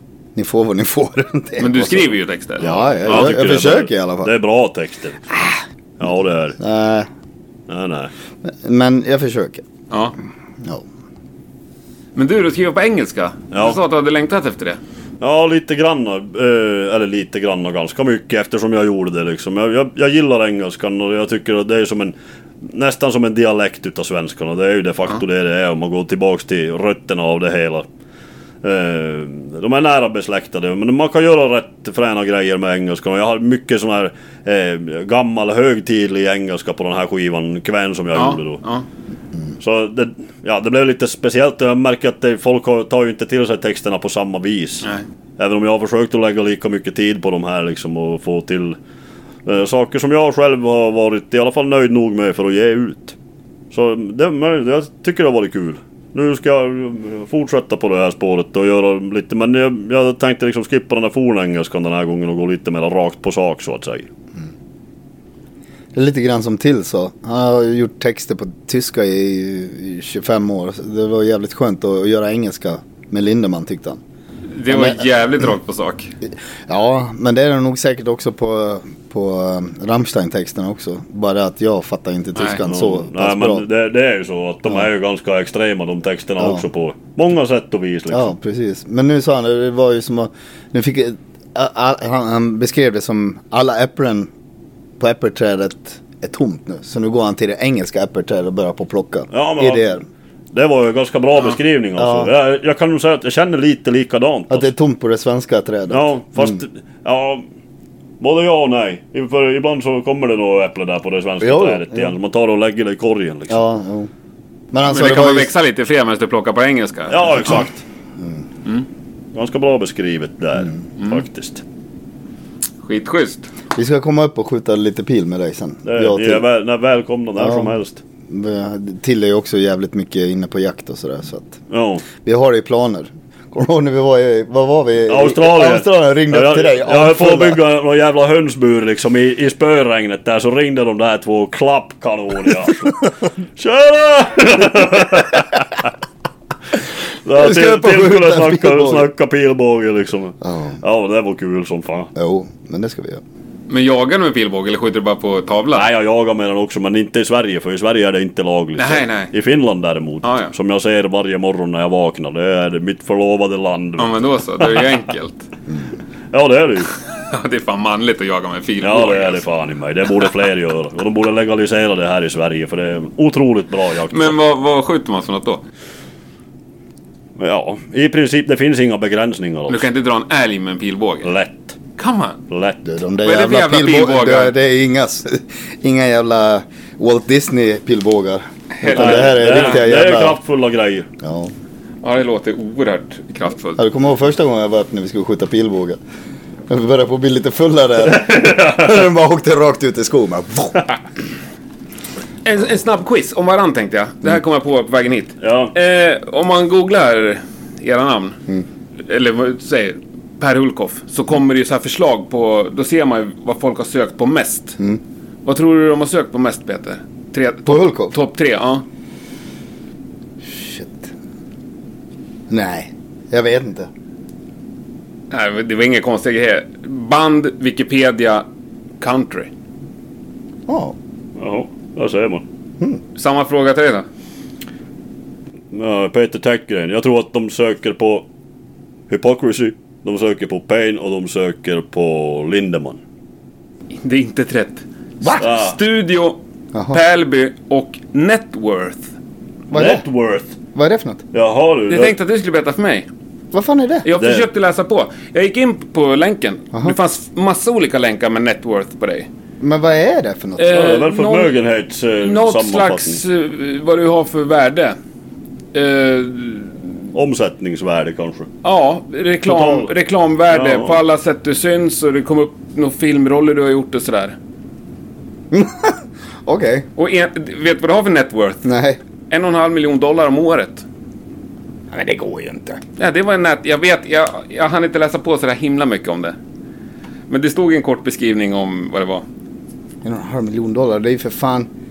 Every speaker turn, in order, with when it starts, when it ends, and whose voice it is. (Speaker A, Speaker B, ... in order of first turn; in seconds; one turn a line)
Speaker A: 0.4-4.3
Speaker B: 1.6-3.3
Speaker C: 2.6-5.3
Speaker A: 5.3-5.6
Speaker C: 6.0-6.6
Speaker A: 6.6-7.1
Speaker C: 7.7-8.1
Speaker A: 8.4-9.6
Speaker B: 12.1-14.8
Speaker C: 13.5-13.8
Speaker C: 15.2-27.9
Speaker C: 28.6-38.6
Speaker B: 38.1-38.8
Speaker C: 39.6-44.9
Speaker C: 45.4-48.8
Speaker C: 49.4-53.1
Speaker C: 53.7-64.1
Speaker A: 65.9-74.0
Speaker B: 74.5-76.1
Speaker A: 74.7-75.0
Speaker A: 76.7-83.7
Speaker C: 82.6-88.3
Speaker A: 88.1-94.3
Speaker A: 95.0-100.0
Speaker C: 99.3-99.9
Speaker C: 100.5-104.7
Speaker A: 102.0-102.3
Speaker A: 104.5-106.6
Speaker C: 105.9-107.5
Speaker C: 108.2-113.6
Speaker A: 111.4-112.1
Speaker A: 113.5-114.1
Speaker A: 114.7-115.5
Speaker B: 114.8-117.6
Speaker C: 117.1-117.8
Speaker A: 118.2-118.4
Speaker C: 119.3-121.6
Speaker B: 122.8-123.5
Speaker A: 123.7-126.4
Speaker C: 125.8-128.0
Speaker A: 127.4-127.7
Speaker A: 128.3-131.6
Speaker C: 131.7-132.0
Speaker A: 132.2-137.6
Speaker C: 135.1-145.9
Speaker C: 147.2-152.1
Speaker A: 147.3-149.1
Speaker A: 150.4-150.8
Speaker A: 152.1-153.2
Speaker B: 153.7-155.9
Speaker C: 155.7-164.8
Speaker B: 158.8-159.3
Speaker B: 160.2-160.5
Speaker B: 164.0-165.5
Speaker C: 166.3-166.9
Speaker B: 167.2-169.4
Speaker C: 168.8-174.3
Speaker B: 174.1-175.6
Speaker C: 177.4-179.9
Speaker B: 179.7-181.3
Speaker C: 181.2-181.8
Speaker B: 182.0-182.4
Speaker C: 182.5-182.8
Speaker A: 182.8-190.4
Speaker B: 183.2-184.5
Speaker B: 188.8-189.8
Speaker C: 188.9-191.1
Speaker A: 191.2-191.5
Speaker B: 192.0-193.8
Speaker A: 193.8-196.0
Speaker A: 196.7-200.8
Speaker C: 198.1-198.9
Speaker B: 202.4-208.4
Speaker C: 205.4-205.7
Speaker B: 209.1-214.8
Speaker B: 215.4-218.8
Speaker A: 217.7-218.1
Speaker A: 220.4-221.1
Speaker A: 222.5-223.9
Speaker B: 225.3-228.4
Speaker B: 229.0-229.5
Speaker A: 230.7-230.9
Speaker C: 231.4-232.4
Speaker B: 233.2-234.1
Speaker C: 235.7-238.3
Speaker C: 239.1-243.0
Speaker B: 243.9-249.1
Speaker C: 245.4-245.8
Speaker A: 249.7-250.0
Speaker C: 249.7-250.6
Speaker A: 250.7-251.2
Speaker C: 251.3-252.2
Speaker B: 251.9-253.1
Speaker A: 253.5-254.1
Speaker B: 254.1-259.3
Speaker C: 254.1-254.5
Speaker A: 259.6-261.0
Speaker B: 260.6-261.6
Speaker C: 260.7-263.2
Speaker B: 262.2-264.9
Speaker B: 265.7-266.9
Speaker C: 267.1-268.5
Speaker B: 268.6-274.4
Speaker C: 269.4-269.9
Speaker C: 270.5-271.0
Speaker A: 275.5-276.9
Speaker B: 277.0-278.7
Speaker A: 278.6-279.0
Speaker B: 279.3-280.8
Speaker A: 281.9-282.8
Speaker B: 283.0-286.4
Speaker B: 287.3-289.2
Speaker A: 290.0-291.7